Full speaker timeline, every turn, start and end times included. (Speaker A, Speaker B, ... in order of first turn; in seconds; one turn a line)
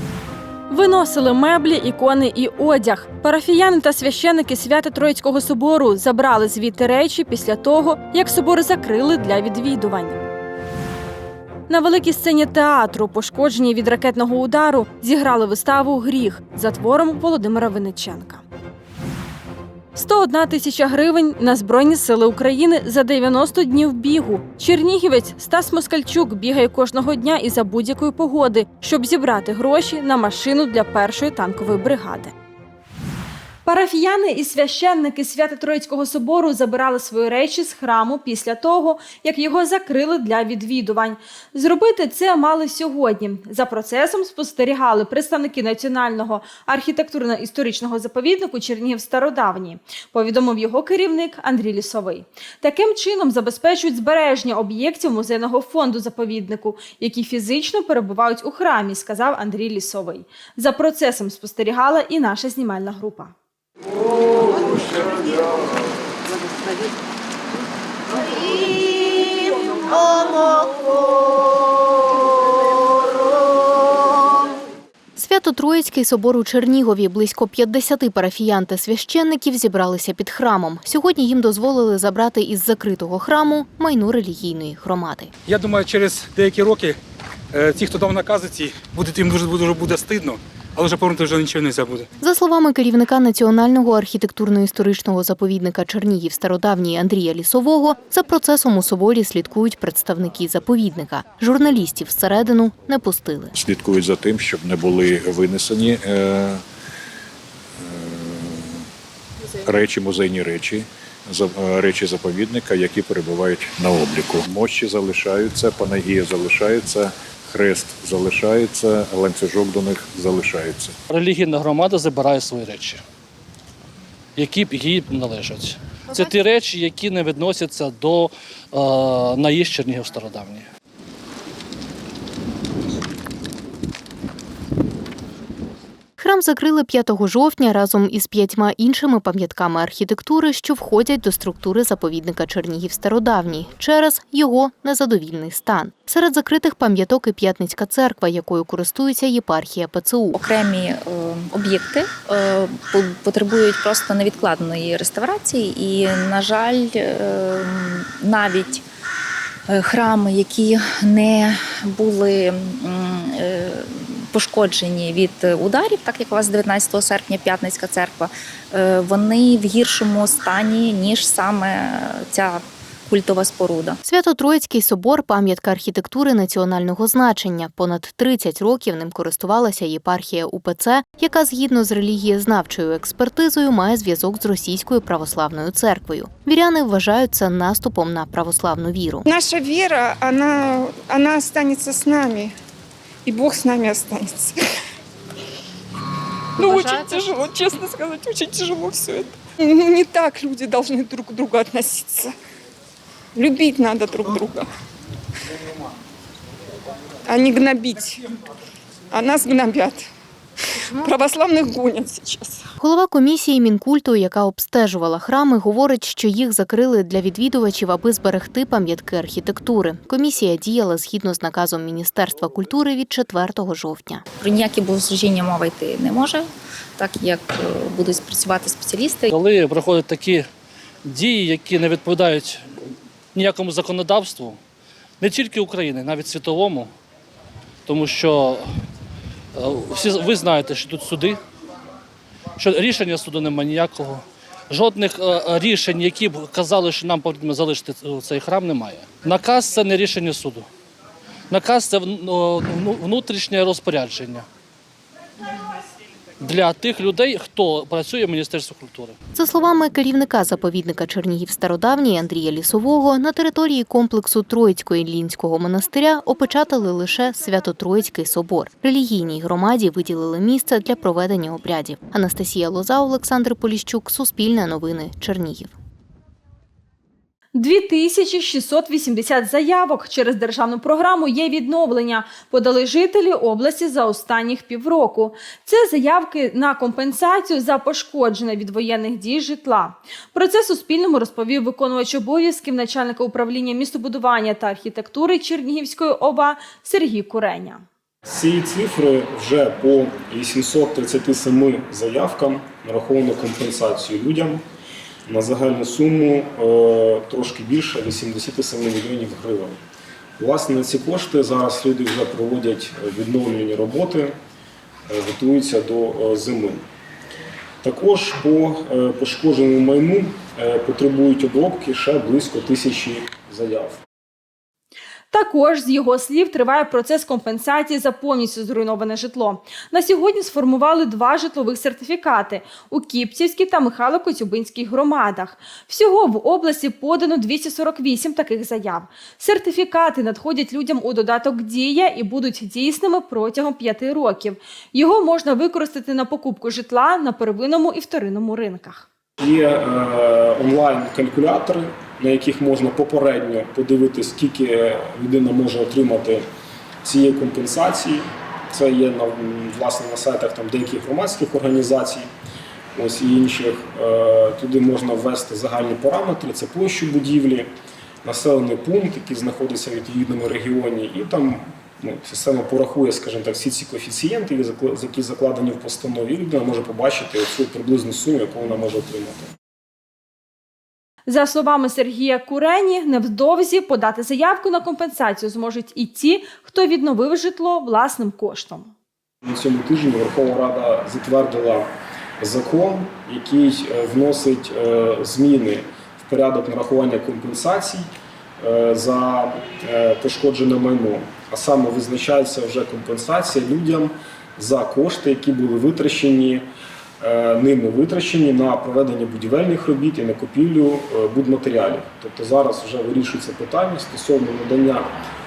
Speaker A: 0.7-10.2
Speaker A: 11.7-18.4
Speaker A: 19.9-32.3
Speaker A: 33.6-63.3
Speaker B: 75.2-85.3
Speaker C: 85.5-86.9
Speaker C: 87.5-92.0
Speaker B: 92.2-103.5
Speaker D: 103.5-106.6
Speaker D: 107.8-108.8
Speaker D: 109.6-120.9
Speaker E: 121.1-123.0
Speaker E: 124.4-130.7
Speaker B: 136.2-150.4
Speaker F: 150.3-158.8
Speaker F: 159.7-174.0
Speaker B: 174.0-189.2
Speaker G: 189.2-192.5
Speaker G: 193.2-194.6
Speaker G: 196.6-202.3
Speaker G: 203.3-204.7
Speaker G: 207.3-208.2
Speaker G: 209.1-210.1
Speaker G: 211.0-212.6
Speaker B: 212.8-224.2
Speaker F: 224.4-229.3
Speaker E: 229.3-230.5
Speaker E: 231.0-232.6
Speaker E: 233.3-234.6
Speaker E: 235.2-236.9
Speaker E: 237.9-238.6
Speaker E: 239.6-241.4
Speaker E: 242.6-250.7
Speaker E: 251.5-254.4
Speaker E: 256.4-259.1
Speaker B: 259.3-275.7
Speaker A: 277.5-297.8
Speaker H: 298.2-304.6
Speaker H: 305.3-309.8
Speaker H: 310.4-314.3
Speaker H: 315.1-316.8
Speaker H: 317.8-324.0
Speaker A: 325.3-349.1
Speaker H: 349.4-356.4
Speaker H: 357.0-362.3
Speaker H: 362.9-367.7
Speaker H: 368.2-379.5
Speaker A: 381.3-388.9
Speaker H: 389.4-391.9
Speaker H: 392.4-398.1
Speaker H: 398.6-406.6
Speaker H: 407.2-415.1